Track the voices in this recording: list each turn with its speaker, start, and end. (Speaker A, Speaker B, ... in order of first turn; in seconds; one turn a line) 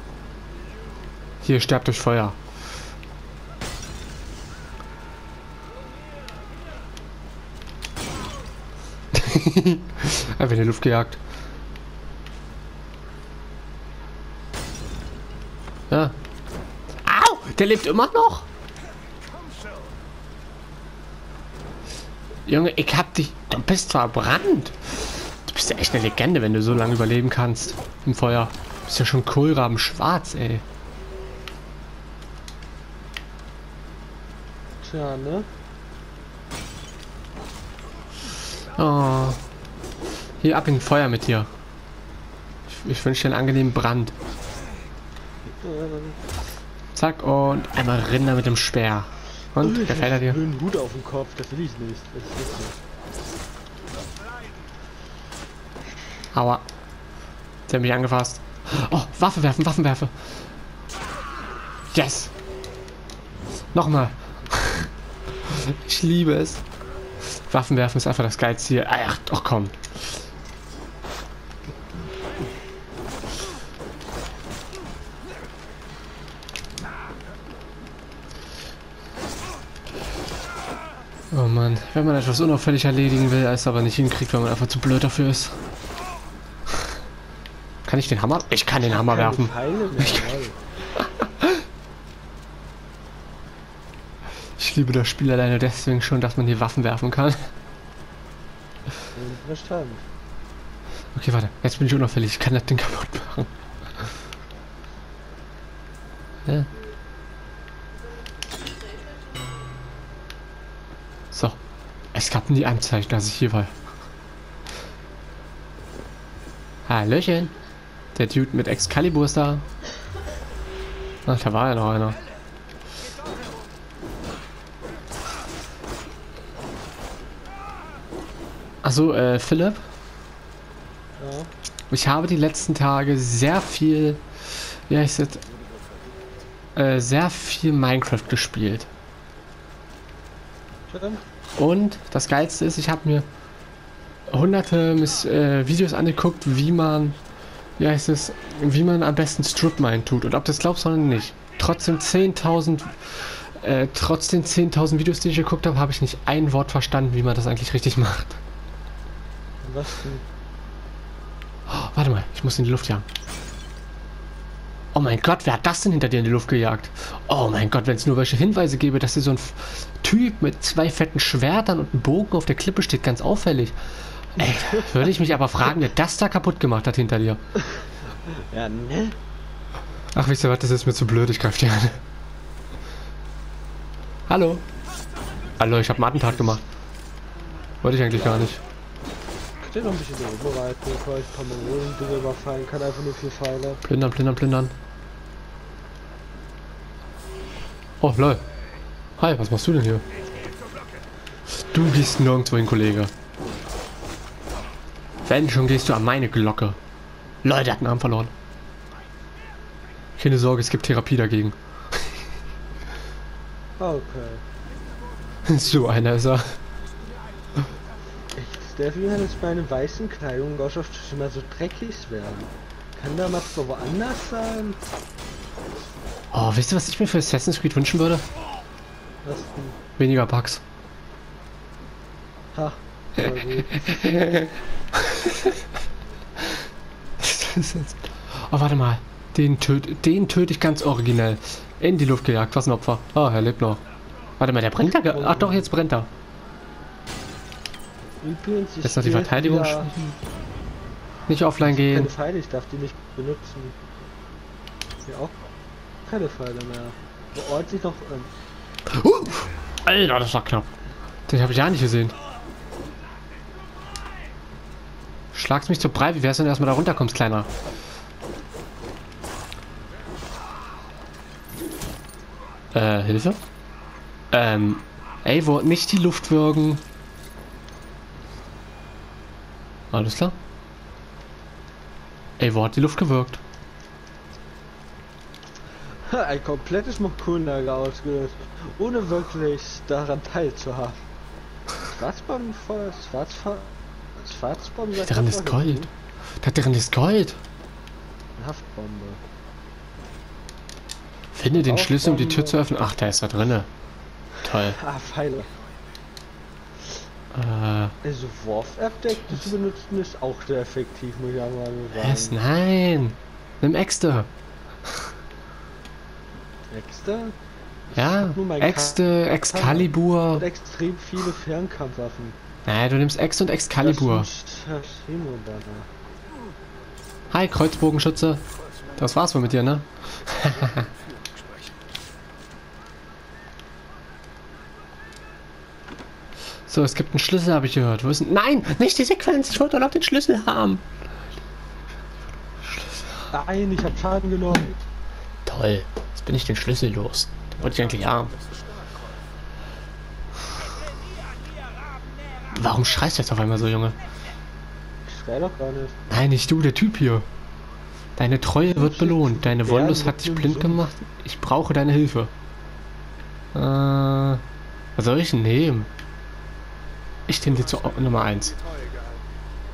Speaker A: 1.4-2.4
Speaker A: 9.1-11.2
Speaker A: 15.9-16.1
Speaker A: 17.0-18.4
Speaker B: 19.3-19.9
Speaker A: 22.4-30.6
Speaker C: 34.8-35.5
Speaker A: 38.7-39.4
Speaker A: 40.4-41.5
Speaker A: 42.7-44.1
Speaker C: 45.5-46.2
Speaker A: 46.9-50.4
Speaker C: 49.6-52.8
Speaker A: 56.3-56.6
Speaker A: 57.7-60.1
Speaker A: 61.9-62.3
Speaker A: 63.7-64.9
Speaker A: 65.4-66.6
Speaker A: 67.2-69.8
Speaker A: 81.3-85.6
Speaker A: 87.8-90.3
Speaker C: 88.8-90.5
Speaker A: 91.0-91.6
Speaker A: 94.6-97.5
Speaker C: 99.1-100.0
Speaker A: 101.1-103.5
Speaker A: 111.3-111.6
Speaker A: 112.1-113.7
Speaker A: 116.9-117.5
Speaker A: 118.1-119.6
Speaker A: 121.2-122.2
Speaker A: 128.8-129.8
Speaker C: 131.2-131.5
Speaker A: 131.9-134.2
Speaker A: 134.9-135.4
Speaker A: 136.8-138.9
Speaker C: 140.9-141.2
Speaker A: 141.6-143.2
Speaker A: 144.3-147.2
Speaker A: 147.8-158.4
Speaker C: 159.6-160.2
Speaker A: 161.7-163.0
Speaker A: 164.9-177.4
Speaker C: 174.4-175.1
Speaker C: 177.8-179.2
Speaker A: 180.1-182.0
Speaker A: 184.3-184.6
Speaker A: 185.6-186.6
Speaker C: 186.2-186.6
Speaker A: 187.8-188.6
Speaker C: 188.1-188.5
Speaker C: 189.6-193.8
Speaker A: 193.8-194.7
Speaker A: 198.0-198.4
Speaker A: 199.2-200.0
Speaker A: 201.6-203.1
Speaker A: 205.2-206.8
Speaker A: 207.4-208.3
Speaker A: 210.2-212.1
Speaker C: 213.8-214.4
Speaker A: 215.4-216.6
Speaker C: 218.3-224.8
Speaker A: 226.3-228.2
Speaker C: 229.2-229.8
Speaker A: 230.0-230.6
Speaker C: 232.5-234.3
Speaker A: 233.3-235.6
Speaker A: 237.2-243.8
Speaker A: 244.4-246.1
Speaker C: 244.8-245.7
Speaker C: 248.2-250.0
Speaker A: 248.8-250.1
Speaker A: 251.3-252.1
Speaker C: 251.7-253.7
Speaker C: 255.0-255.3
Speaker C: 256.0-258.3
Speaker A: 258.9-260.7
Speaker A: 261.3-262.1
Speaker A: 265.3-267.5
Speaker A: 272.7-273.4
Speaker A: 274.3-276.8
Speaker A: 279.9-280.3
Speaker A: 282.4-283.4
Speaker C: 286.0-291.0
Speaker C: 291.8-295.9
Speaker A: 294.9-295.9
Speaker A: 296.4-297.4
Speaker C: 298.4-299.2
Speaker A: 301.4-303.7
Speaker C: 301.5-302.6
Speaker A: 304.4-304.8
Speaker C: 304.5-305.5
Speaker A: 307.3-307.9
Speaker C: 308.0-312.4
Speaker A: 311.9-314.3
Speaker C: 316.7-317.3
Speaker C: 317.9-322.4
Speaker A: 317.9-320.4
Speaker A: 322.6-324.3
Speaker C: 323.8-325.9
Speaker A: 327.3-328.4
Speaker B: 328.5-331.9
Speaker A: 329.0-330.8
Speaker A: 336.7-340.8
Speaker C: 343.3-344.8
Speaker A: 345.4-348.3
Speaker B: 347.6-349.3
Speaker A: 352.5-354.0
Speaker C: 355.0-356.0
Speaker A: 356.1-357.2
Speaker A: 358.2-362.3
Speaker C: 358.7-360.9
Speaker A: 363.5-364.4
Speaker A: 365.0-365.9
Speaker A: 367.3-368.5
Speaker B: 367.4-369.3